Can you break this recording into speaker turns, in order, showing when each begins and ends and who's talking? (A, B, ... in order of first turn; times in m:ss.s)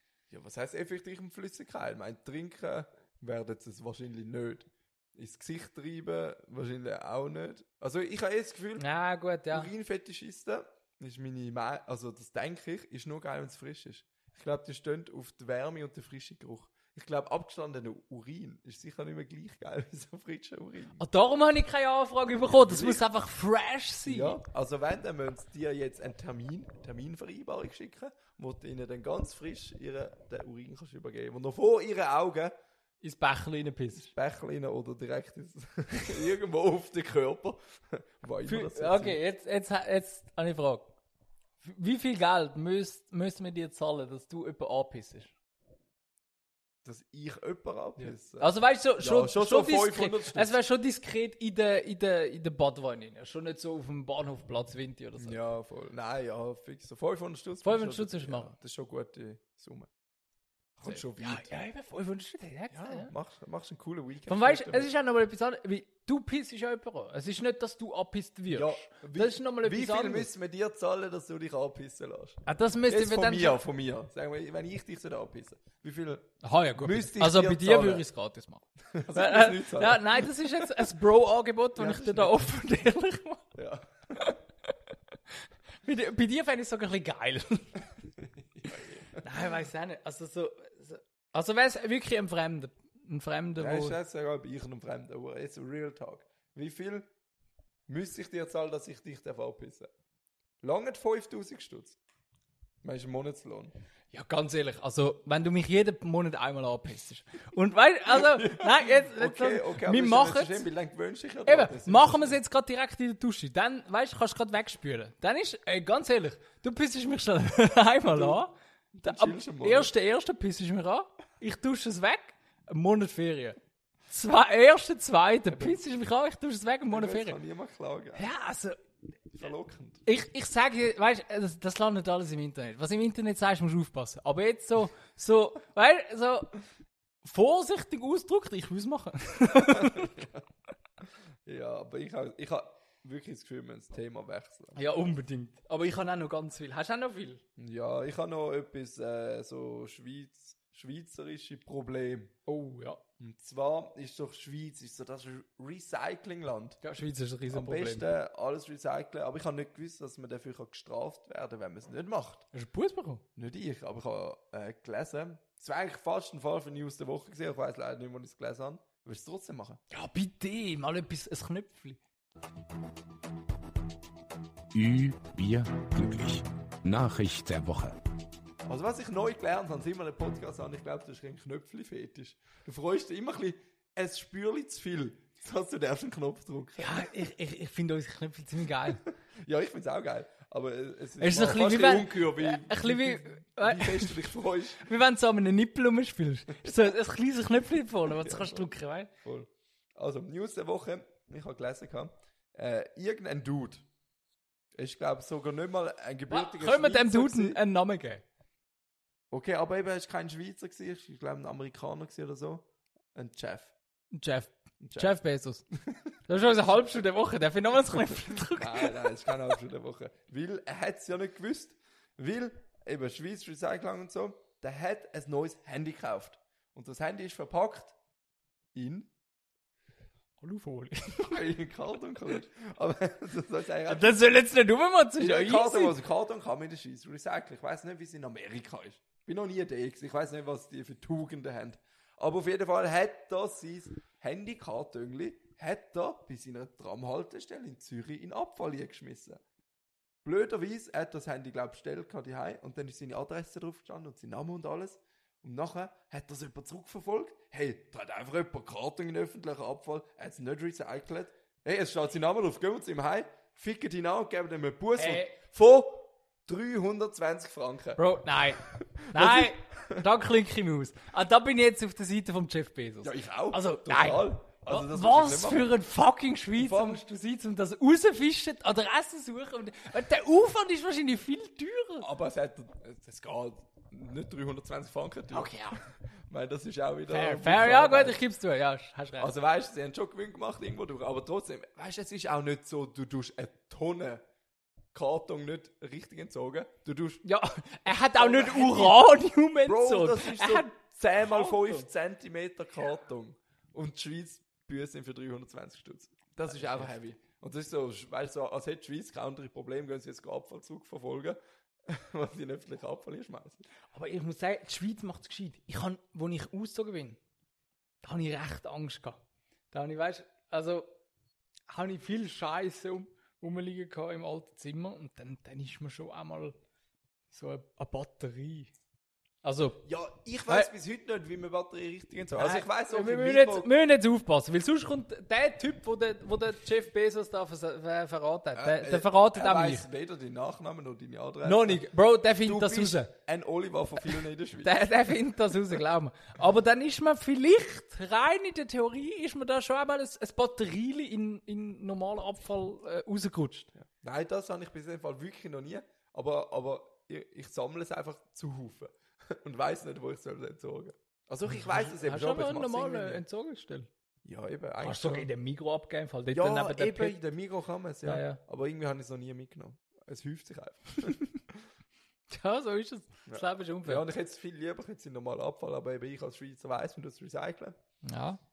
0:00.3-0:08.8 A
0:08.8-0:09.7 B
0:09.5-0:21.0 A
0:21.0-0:24.4 B
0:22.5-0:23.0 A
0:24.0-0:32.5 A
0:33.0-0:34.1 B
0:34.0-0:39.2 A
0:38.4-0:40.9 B
0:41.6-0:45.3 B
0:46.8-0:50.6 A
0:48.0-0:55.4 B
0:55.2-0:59.9 A
0:57.6-0:58.5 B
1:00.8-1:01.5 A
1:00.9-1:03.1 B
1:02.7-1:04.9 A
1:04.2-1:10.3 B
1:08.5-1:18.0 A
1:12.4-1:13.6 B
1:16.4-1:23.5 B
1:18.9-1:20.8 A
1:21.8-1:22.5 A
1:23.5-1:24.4 A
1:25.8-1:27.8 B
1:28.2-1:29.2 A
1:28.7-1:34.0 B
1:33.6-1:37.1 A
1:37.9-1:39.9 A
1:40.6-1:42.0 A
1:42.8-1:43.7 A
1:44.1-1:50.7 B
1:48.1-1:52.4 A
1:51.4-2:03.6 B
1:58.1-1:58.4 A
1:58.9-1:59.9 A
2:04.1-2:07.4 B
2:05.5-2:05.8 A
2:06.9-2:08.3 A
2:08.1-2:08.8 B
2:09.3-2:10.0 A
2:10.0-2:16.6 B
2:17.2-2:20.3 B
2:19.6-2:20.4 A
2:21.4-2:24.8 A
2:24.7-2:27.4 B
2:27.6-2:32.3 A
2:32.5-2:33.0 B
2:33.2-2:36.8 A
2:36.8-2:38.1 B
2:37.5-2:42.5 A
2:42.5-2:43.2 B
2:43.4-2:49.8 A
2:49.9-2:52.0 B
2:54.7-2:58.0 C
2:58.6-3:07.1 A
3:06.8-3:09.0 B
3:09.0-3:14.9 A
3:11.2-3:19.1 B
3:18.1-3:23.8 A
3:24.7-3:27.6 A
3:26.3-3:28.2 B
3:29.3-3:33.7 A
3:34.1-3:35.6 B
3:34.8-3:35.2 A
3:35.7-3:36.2 A
3:36.3-3:39.1 B
3:38.5-3:47.9 A
3:48.7-3:49.1 A
3:50.4-3:51.4 B
3:51.2-3:54.2 A
3:53.9-3:56.0 B
3:55.2-4:09.4 A
4:10.2-4:28.0 A
4:25.0-4:25.4 B
4:28.0-4:42.1 B
4:28.6-4:30.0 A
4:33.0-4:35.8 A
4:36.5-4:37.0 A
4:42.0-4:48.2 A
4:45.3-4:45.8 B
4:47.1-4:49.3 B
4:49.2-4:54.2 A
4:54.9-4:57.2 A
4:57.2-5:01.9 B
4:58.1-4:59.1 A
4:59.6-5:13.6 A
5:06.5-5:06.9 B
5:13.9-5:17.2 B
5:18.0-5:19.2 B
5:19.7-5:20.9 B
5:21.7-5:26.6 B
5:27.3-5:28.7 B
5:29.4-5:29.8 B
5:29.8-5:33.7 A
5:32.4-5:39.9 B
5:38.5-5:41.9 A
5:41.4-5:43.1 B
5:42.4-5:44.8 A
5:44.6-5:53.7 B
5:53.8-6:03.2 A
6:01.5-6:03.9 B
6:04.2-6:05.3 A
6:04.8-6:07.2 B
6:06.3-6:11.6 A
6:08.0-6:08.4 B
6:12.3-6:14.0 B
6:13.3-6:17.8 A
6:18.0-6:18.4 B